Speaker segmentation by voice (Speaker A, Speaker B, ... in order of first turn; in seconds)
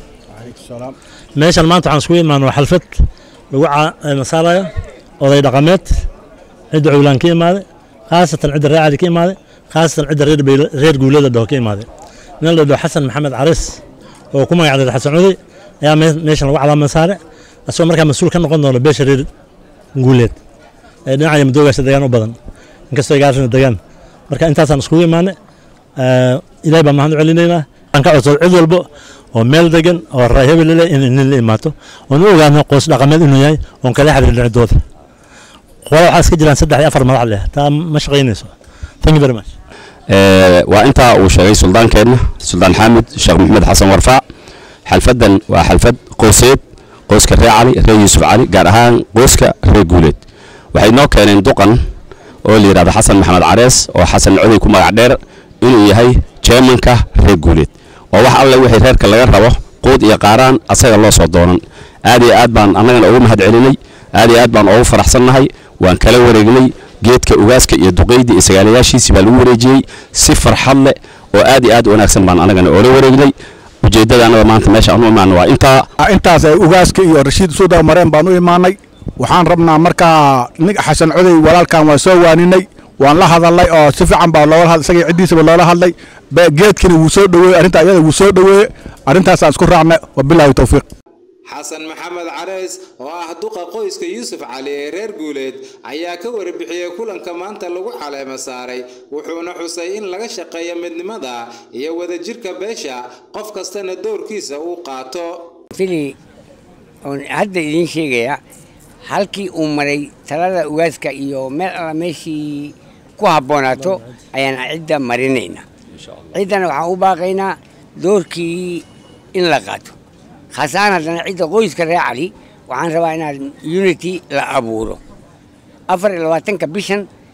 Speaker A: 0.4-0.9, 76.0-90.9
Speaker B: 1.4-3.0, 3.5-5.9, 6.7-11.9, 12.4-13.8, 14.3-19.3, 20.0-20.4, 21.1-22.4, 22.9-25.4, 26.0-34.8, 35.9-39.5
Speaker C: 40.1-44.2, 44.9-50.2, 50.7-51.8, 52.4-75.9
Speaker D: 91.5-105.5
Speaker E: 105.7-106.1, 107.1-108.4, 109.1-115.6, 116.3-118.8, 119.3-120.0, 120.5-125.0, 125.9-127.0